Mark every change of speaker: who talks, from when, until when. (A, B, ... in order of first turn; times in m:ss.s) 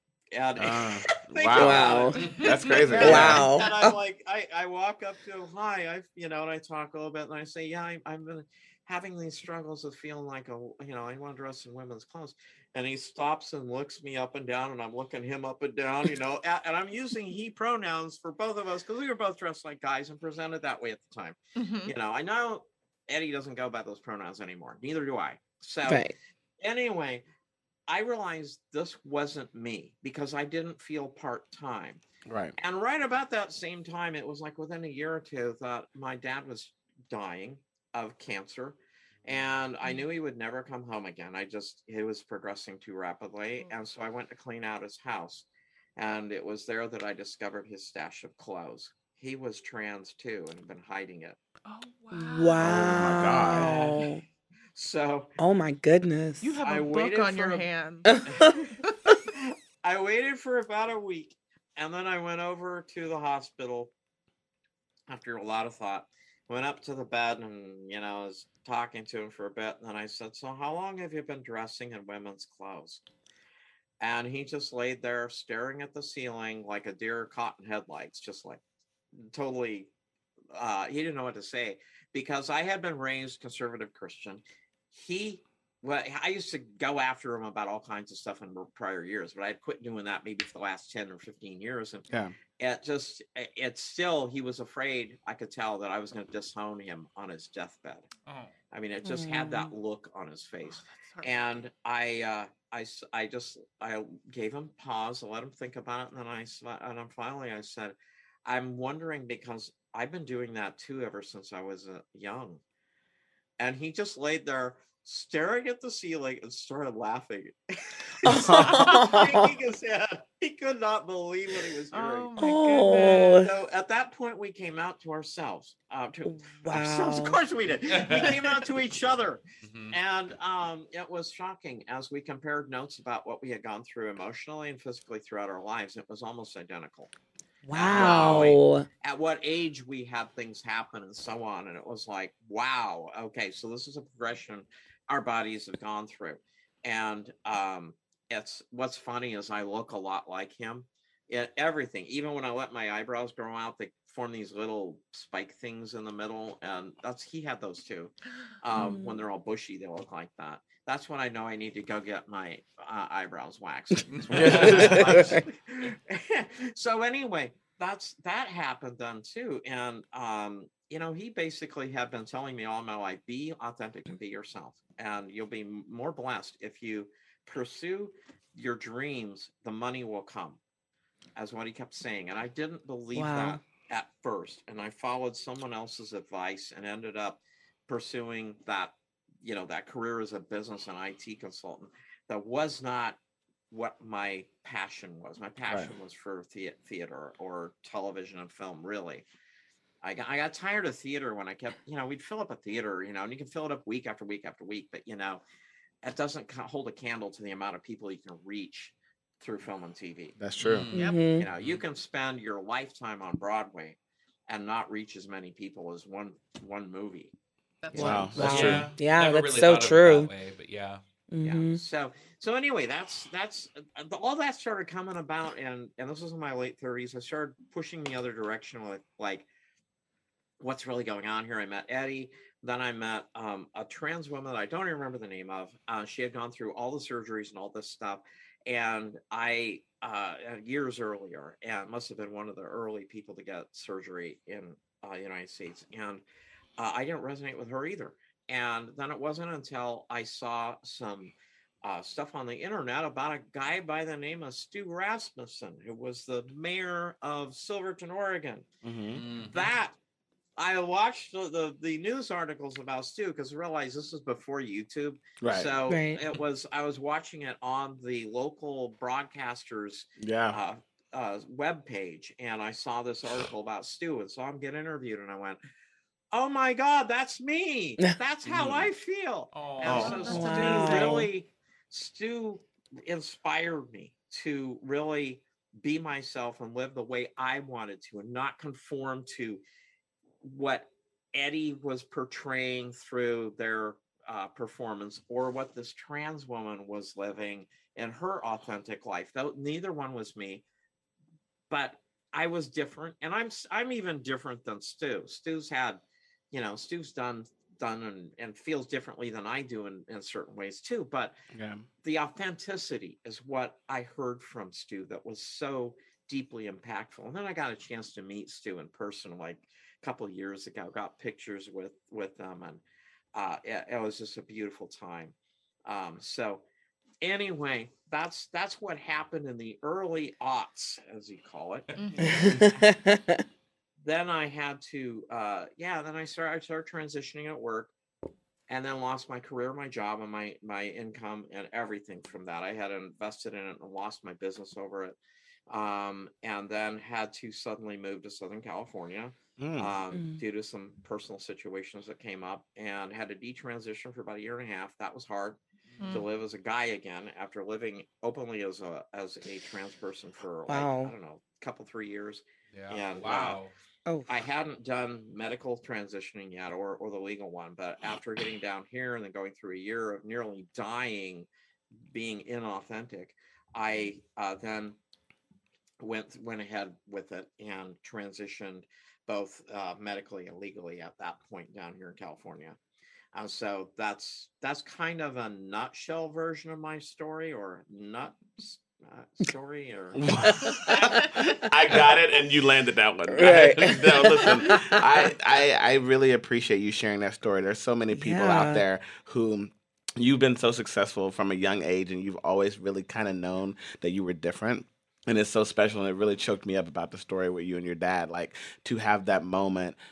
0:00.3-0:27.2 A
0:00.6-0:03.5 B
0:01.6-0:02.2 C
0:02.2-0:02.6 D
0:02.2-0:03.5 E
0:03.0-0:03.9 C
0:21.6-0:21.9 E
0:25.9-0:26.1 C
0:27.9-0:32.0 A
0:32.2-0:32.6 B
0:32.6-0:51.4 A
0:51.6-0:52.8 E
0:52.1-0:54.2 C
0:52.6-0:53.8 B
0:53.5-0:54.1 A
0:54.8-0:55.3 A
0:55.4-0:56.6 C
0:56.4-0:58.9 E
0:56.6-0:57.7 A
0:58.1-0:58.4 C
0:58.3-0:58.7 A
0:59.3-1:03.9 A
1:05.1-1:13.0 A
1:14.0-1:18.6 A
1:19.3-1:19.9 A
1:20.5-1:38.1 A
1:38.3-1:38.5 D
1:38.7-1:48.0 A
1:39.0-1:39.7 C
1:40.7-1:41.5 E
1:48.5-1:52.6 A
1:53.6-2:17.1 A
1:58.2-1:59.5 C
1:58.3-1:58.8 B
1:58.9-1:59.2 E
2:01.9-2:03.4 E
2:02.4-2:03.5 C
2:06.2-2:07.4 C
2:07.9-2:08.4 D
2:09.6-2:10.0 D
2:17.7-2:18.9 C
2:17.7-3:00.6 A
2:17.9-2:18.5 E
2:38.8-2:39.2 C
2:44.1-2:45.0 D
2:44.3-2:45.4 B
3:01.4-3:13.2 A
3:03.1-3:03.6 C
3:13.7-3:19.2 A
3:15.7-3:15.9 B
3:20.0-3:25.4 A
3:26.0-3:30.4 A
3:30.4-3:30.9 B
3:30.6-3:31.8 D
3:30.9-3:31.3 E
3:31.0-3:31.5 C
3:31.4-3:34.0 A
3:34.5-3:37.3 A
3:37.8-3:38.7 E
3:37.9-3:40.3 C
3:38.0-3:38.9 B
3:38.4-3:41.0 D
3:41.3-3:41.8 C
3:41.4-3:49.5 A
3:50.6-4:06.2 A
4:06.8-4:11.3 A
4:11.8-4:18.7 A
4:18.8-4:19.2 B
4:19.1-4:19.7 D
4:19.5-4:20.0 A
4:20.6-4:35.6 A
4:25.4-4:25.7 B
4:25.9-4:26.2 C
4:30.2-4:30.6 B
4:36.3-4:49.6 A
4:38.5-4:38.9 D
4:39.5-4:40.4 D
4:39.8-4:41.3 E
4:40.3-4:41.3 C
4:50.4-5:00.6 A
5:01.7-5:06.0 A
5:06.5-5:11.4 A
5:11.5-5:11.8 B
5:12.0-5:22.8 A
5:23.4-5:25.4 A
5:25.9-5:26.6 A
5:27.2-5:32.8 A
5:32.0-5:32.7 E
5:32.2-5:33.4 C
5:34.0-5:37.9 A
5:38.7-5:45.2 A
5:45.7-6:03.6 A
5:49.6-5:49.9 B
5:50.1-5:50.4 C
5:55.9-5:56.2 D
5:56.0-5:56.3 E
6:00.7-6:01.1 C
6:02.7-6:03.7 D
6:04.3-6:11.5 A
6:12.1-6:15.0 A
6:16.0-6:22.8 A
6:23.3-6:31.3 A
6:30.2-6:50.0 B
6:30.4-6:31.0 C
6:33.3-6:35.0 C
6:38.1-6:38.8 C